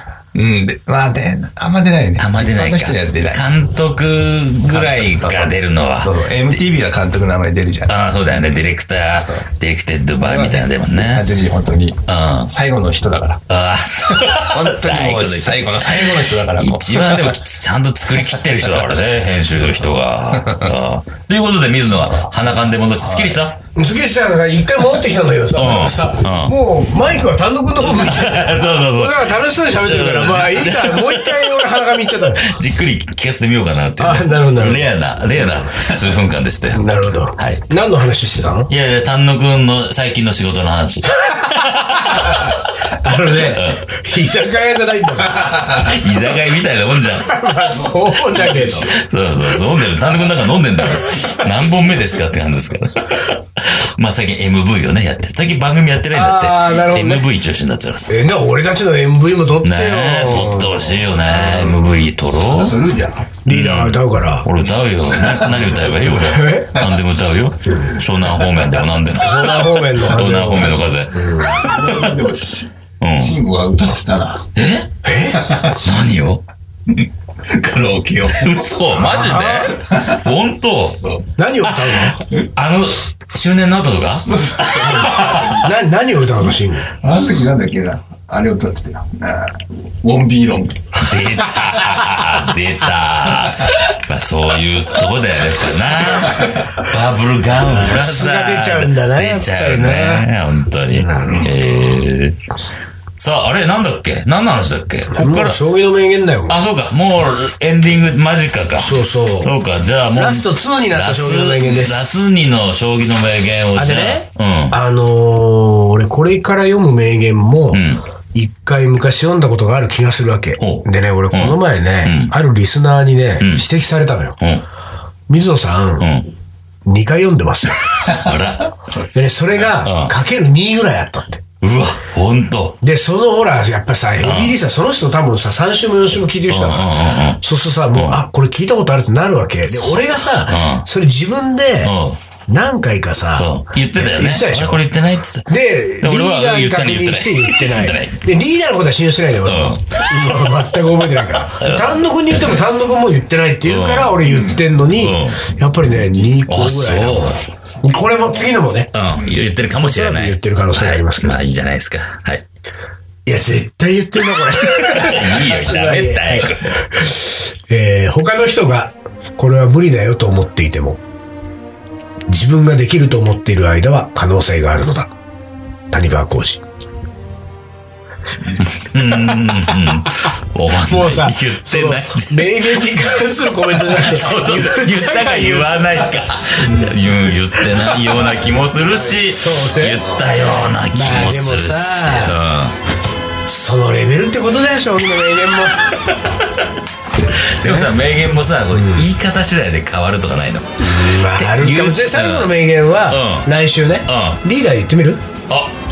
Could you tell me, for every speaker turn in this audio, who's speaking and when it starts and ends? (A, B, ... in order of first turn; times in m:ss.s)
0:00.3-0:03.4 A
0:02.2-0:06.6 B
0:04.6-0:07.9 A
0:07.9-0:11.2 B
0:10.2-0:13.4 A
0:12.1-0:12.5 B
0:13.5-0:23.6 B
0:14.1-0:17.4 A
0:18.1-0:18.8 A
0:20.3-0:20.7 A
0:23.0-0:23.4 A
0:23.8-0:32.6 C
0:25.5-0:26.5 B
0:27.8-0:36.8 B
0:34.0-0:34.9 C
0:36.7-0:38.7 C
0:37.3-0:37.6 B
0:38.7-0:42.6 B
0:41.0-0:45.8 C
0:43.3-0:43.9 B
0:45.7-0:58.1 B
0:47.2-0:48.9 C
0:48.5-0:48.8 A
0:56.1-0:57.3 C
0:58.1-1:01.0 C
0:59.6-1:02.8 B
1:02.5-1:03.3 A
1:03.4-1:04.5 C
1:03.5-1:12.2 B
1:05.1-1:06.1 A
1:06.2-1:06.7 C
1:09.2-1:11.7 C
1:11.4-1:14.5 A
1:13.0-1:13.4 B
1:14.5-1:14.9 B
1:15.0-1:15.5 C
1:15.4-1:15.8 A
1:15.7-1:16.4 B
1:16.9-1:20.2 A
1:18.3-1:21.0 B
1:19.1-1:19.7 C
1:21.4-1:22.2 C
1:22.0-1:25.6 B
1:24.3-1:25.7 A
1:25.2-1:26.9 C
1:27.0-1:31.2 A
1:31.0-1:42.4 B
1:33.3-1:33.7 A
1:36.3-1:36.6 A
1:37.6-1:40.3 C
1:40.9-1:41.5 A
1:41.1-1:41.4 C
1:43.2-1:45.6 B
1:45.1-1:46.6 C
1:46.5-1:54.8 B
1:48.8-1:49.5 C
1:50.1-1:52.1 C
1:53.8-2:04.4 C
1:57.7-1:58.0 B
2:00.6-2:02.3 B
2:03.4-2:03.6 B
2:04.4-2:04.6 B
2:05.3-2:06.1 C
2:06.0-2:06.3 B
2:06.8-2:08.1 C
2:08.0-2:08.7 B
2:09.1-2:11.4 C
2:09.6-2:10.1 B
2:11.6-2:12.8 B
2:12.8-2:21.9 C
2:14.2-2:14.6 B
2:16.5-2:17.4 B
2:17.9-2:18.2 B
2:19.6-2:20.8 B
2:21.8-2:22.2 B
2:22.5-2:24.9 C
2:23.4-2:25.5 B
2:25.4-2:38.9 C
2:26.0-2:28.2 B
2:29.4-2:29.9 B
2:31.6-2:32.6 B
2:33.6-2:34.2 B
2:34.2-2:34.6 A
2:34.9-2:35.4 B
2:36.4-2:37.4 B
2:38.9-2:42.4 B
2:39.8-2:41.4 C
2:43.2-2:51.0 C
2:44.8-2:46.8 B
2:52.3-2:55.1 C
2:55.9-2:56.6 C
2:58.6-3:03.0 B
3:00.1-3:00.3 C
3:00.8-3:06.1 C
3:03.6-3:12.8 B
3:06.6-3:07.0 A
3:09.1-3:10.1 C
3:10.6-3:12.4 C
3:13.4-3:15.9 C
3:15.9-3:16.5 B
3:17.3-3:22.5 B
3:18.7-3:19.0 C
3:20.8-3:25.2 C
3:23.1-3:23.5 B
3:24.0-3:24.4 B
3:25.5-3:25.8 B